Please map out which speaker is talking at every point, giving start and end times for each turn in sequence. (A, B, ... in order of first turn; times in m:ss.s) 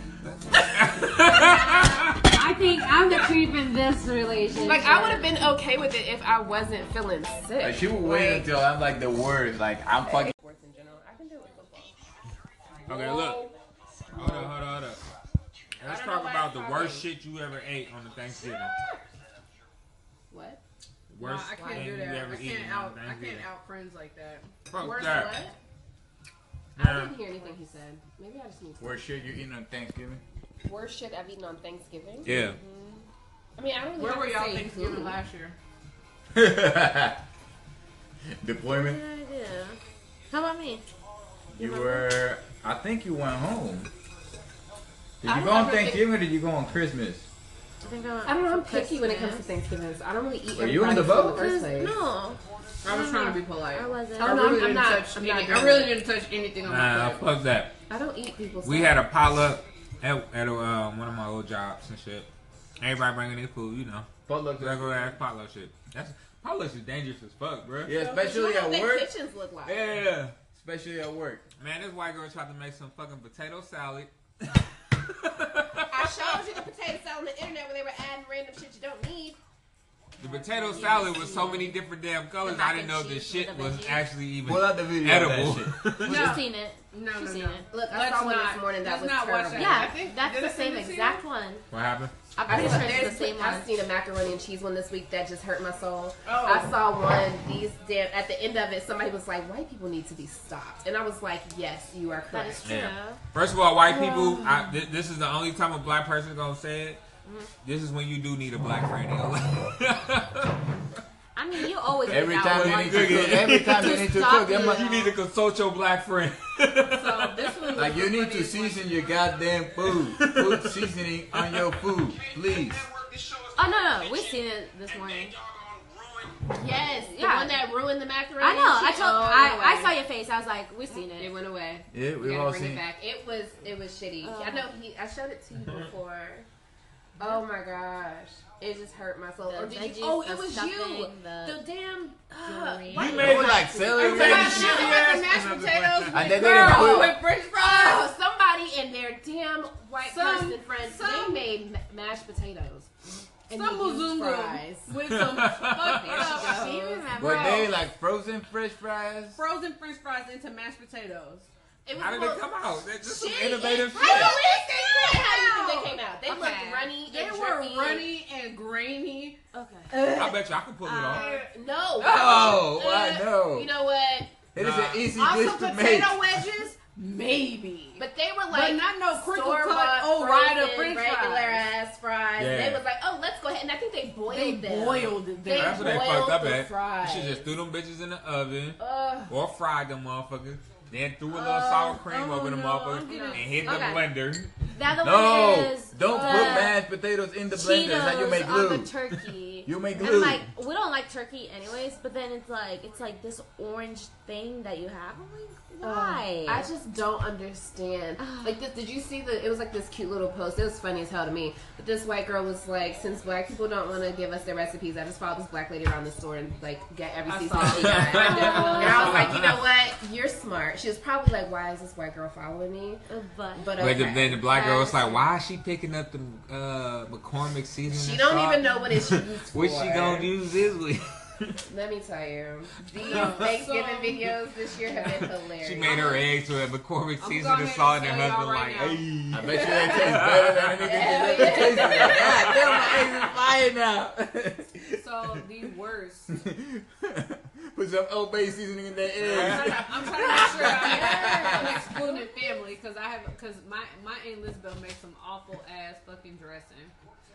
0:00.5-0:02.3 A
0:01.2-0:05.3 B
0:04.6-0:08.5 C
0:07.6-0:10.3 D
0:10.0-0:11.9 C
0:12.9-0:14.5 C
0:12.9-0:13.5 A
0:14.1-0:15.0 A
0:15.8-0:18.7 A
0:15.8-0:17.0 C
0:18.3-0:18.9 C
0:20.3-0:20.6 C
0:21.1-0:23.4 A
0:21.2-0:25.5 E
0:24.7-0:25.4 A
0:24.8-0:25.5 C
0:26.8-0:27.1 A
0:26.8-0:29.1 C
0:28.8-0:30.2 D
0:30.6-0:32.3 C
0:32.2-0:32.6 A
0:32.3-0:33.0 B
0:33.6-0:35.2 C
0:34.0-0:35.6 E
0:36.3-0:37.2 D
0:38.4-0:39.0 D
0:38.8-0:39.8 B
0:40.3-0:40.8 B
0:41.5-0:43.9 D
0:41.6-0:42.1 B
0:45.2-0:47.2 D
0:45.5-0:46.0 B
0:47.8-0:49.4 B
0:48.2-0:52.0 C
0:50.5-0:51.5 D
0:51.3-0:54.5 B
0:52.8-0:57.3 E
0:54.2-0:56.0 C
0:56.7-0:57.7 A
0:57.9-0:59.0 C
0:58.6-1:02.3 A
1:02.8-1:07.9 A
1:04.3-1:05.2 D
1:07.8-1:09.1 D
1:07.9-1:10.0 C
1:09.7-1:10.0 D
1:09.7-1:10.3 A
1:10.5-1:11.4 D
1:11.6-1:14.5 A
1:15.0-1:16.2 A
1:15.9-1:19.4 C
1:20.2-1:26.3 A
1:20.3-1:21.8 B
1:20.7-1:21.4 C
1:22.4-1:24.1 B
1:24.4-1:26.0 D
1:26.0-1:27.7 B
1:26.0-1:31.2 E
1:27.7-1:30.0 C
1:29.5-1:31.6 B
1:31.7-1:32.1 A
1:32.4-1:33.7 B
1:32.5-1:42.6 C
1:36.2-1:36.7 E
1:42.3-1:43.2 B
1:42.6-1:47.0 A
1:47.6-1:50.5 A
1:51.4-1:55.1 B
1:52.1-1:54.9 D
1:52.1-1:57.5 A
1:56.9-1:59.0 E
1:57.7-2:02.8 D
1:59.9-2:01.8 A
2:03.5-2:05.4 B
2:06.5-2:10.0 C
2:07.0-2:07.6 B
2:08.4-2:11.3 B
2:11.1-2:16.4 C
2:11.9-2:12.8 D
2:14.2-2:14.7 B
2:17.2-2:25.0 C
2:19.5-2:21.6 B
2:22.4-2:23.3 B
2:22.9-2:25.0 D
2:23.0-2:26.2 A
2:23.9-2:27.2 E
2:26.1-2:27.2 D
2:26.3-2:32.9 C
2:26.4-2:28.1 B
2:30.0-2:31.4 E
2:33.5-2:34.9 C
2:33.5-2:37.1 E
2:35.1-2:36.2 A
2:35.8-2:37.0 C
2:36.2-2:37.8 B
2:37.2-2:39.4 D
2:39.3-2:41.5 E
2:41.8-2:48.1 C
2:42.0-2:44.3 A
2:44.2-2:45.9 E
2:46.3-2:46.9 B
2:47.0-2:49.4 E
2:49.5-2:50.3 C
2:49.9-2:50.3 B
2:50.2-2:51.2 A
2:50.8-2:51.4 B
2:50.9-2:54.4 C
2:52.0-2:52.6 E
2:52.0-2:53.7 D
2:54.5-2:56.6 D
2:54.6-2:55.0 A
2:55.1-3:01.7 E
2:58.0-3:07.5 C
3:02.4-3:02.8 A
3:04.3-3:05.9 E
3:05.6-3:14.5 A
3:08.8-3:09.3 C
3:11.3-3:14.1 B
3:13.0-3:14.0 E
3:13.1-3:13.8 C
3:14.7-3:16.8 B
3:15.0-3:18.9 D
3:16.1-3:16.7 C
3:17.5-3:26.7 B
3:19.6-3:20.5 D
3:25.8-3:43.0 C
3:28.2-3:28.6 B
3:37.2-3:39.2 E
3:37.6-3:39.6 A
3:38.2-3:39.3 B
3:43.1-3:45.2 B
3:43.5-3:44.5 C
3:43.8-3:51.6 A
3:47.9-3:50.3 C
3:51.7-3:56.2 C
3:53.0-3:54.3 E
3:53.0-3:53.4 A
3:55.0-4:00.9 A
3:57.2-3:59.1 E
3:59.3-4:05.0 D
3:59.6-3:59.9 C
4:00.8-4:03.0 C
4:05.0-4:06.4 E
4:06.3-4:11.7 D
4:09.2-4:16.9 E
4:09.3-4:09.9 A
4:10.6-4:11.7 C
4:10.9-4:11.7 B